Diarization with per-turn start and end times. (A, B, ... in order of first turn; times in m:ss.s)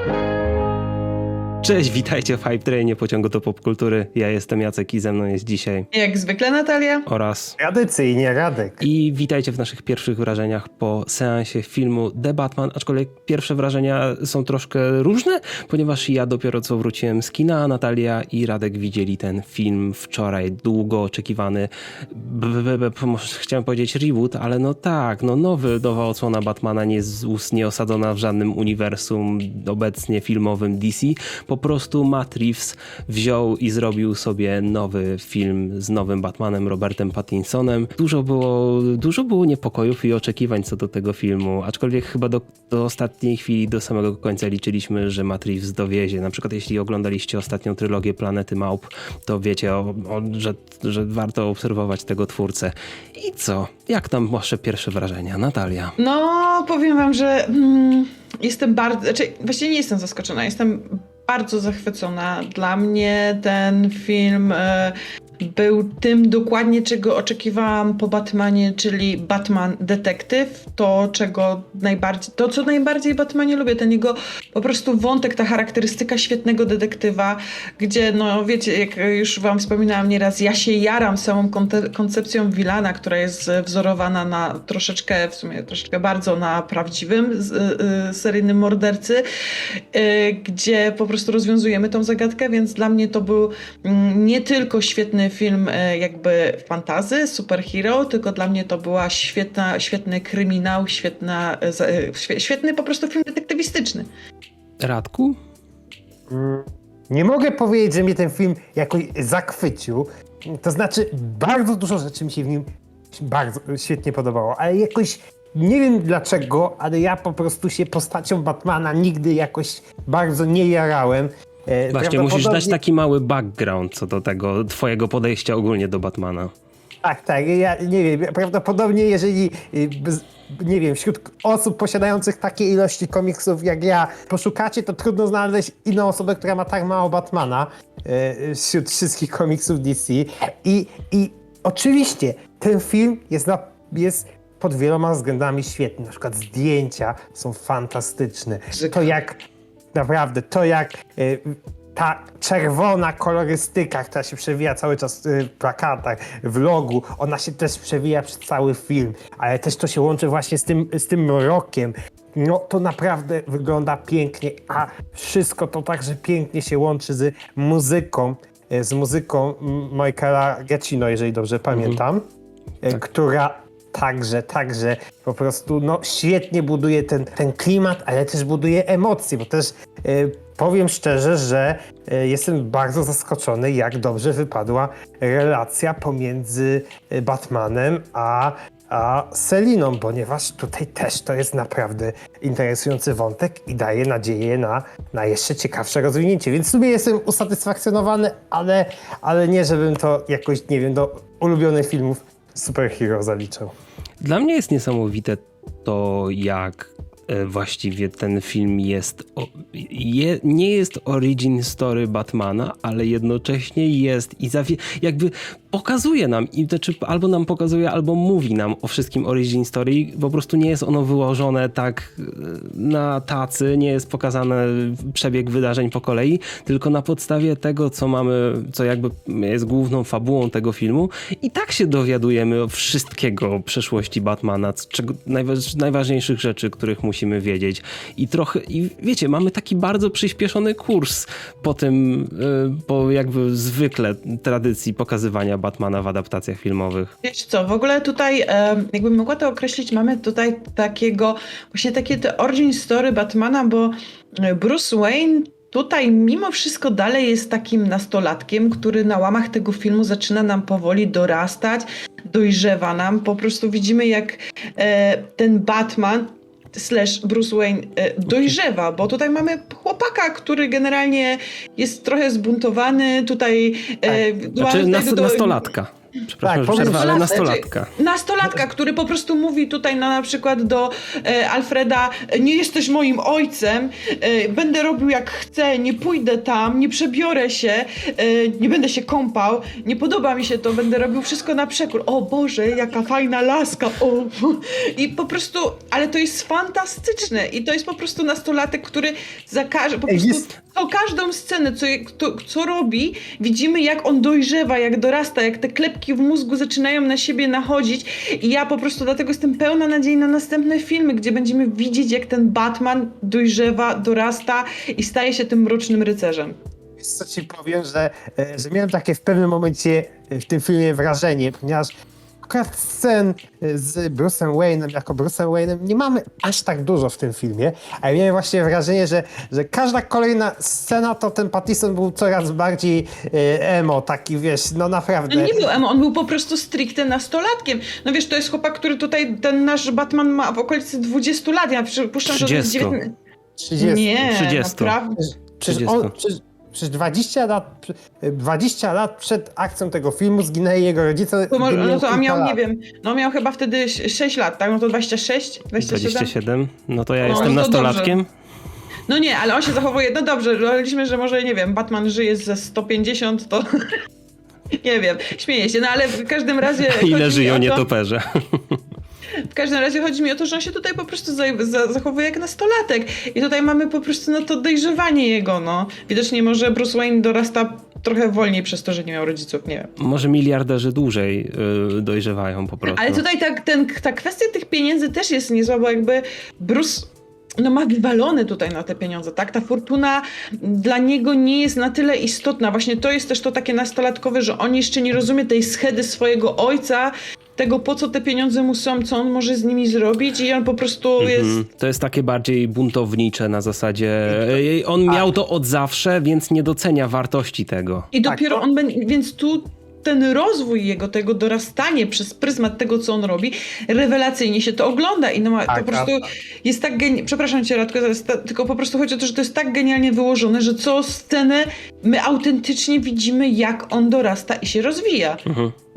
0:01.6-0:05.9 A
0:05.9-0:07.0 B
0:07.0-0:07.6 A
0:07.6-0:08.8 C
0:08.8-0:56.0 A
0:56.0-1:29.2 B
1:29.9-1:44.1 B
1:44.8-1:45.4 A
1:46.3-2:02.8 C
2:01.9-2:06.5 A
2:07.0-2:29.4 C
2:28.7-2:29.0 B
2:29.9-2:52.2 C
2:51.7-2:52.0 A
2:52.8-3:23.7 C
3:24.2-4:07.1 A
4:07.2-4:35.7 B
4:34.6-4:37.9 A
4:36.4-4:37.4 C
4:36.7-5:16.6 B
5:00.1-5:00.5 C
5:17.0-5:21.9 C
5:22.4-5:35.7 C
5:35.3-5:43.1 B
5:42.3-5:43.0 A
5:43.6-5:44.1 C
5:43.8-5:45.2 B
5:44.2-5:45.0 A
5:45.6-5:46.1 A
5:45.6-5:52.6 C
5:51.5-5:56.3 B
5:55.8-5:58.3 A
5:57.2-5:58.2 B
5:57.3-5:57.6 C
5:59.1-6:04.0 B
6:04.8-6:07.8 B
6:06.8-6:08.8 A
6:09.4-6:19.9 B
6:20.0-6:23.2 A
6:22.8-6:41.6 B
6:41.2-6:48.1 A
6:44.3-6:45.3 C
6:48.1-7:05.4 B
6:48.2-6:48.6 C
6:55.7-6:56.1 C
7:05.4-7:05.7 A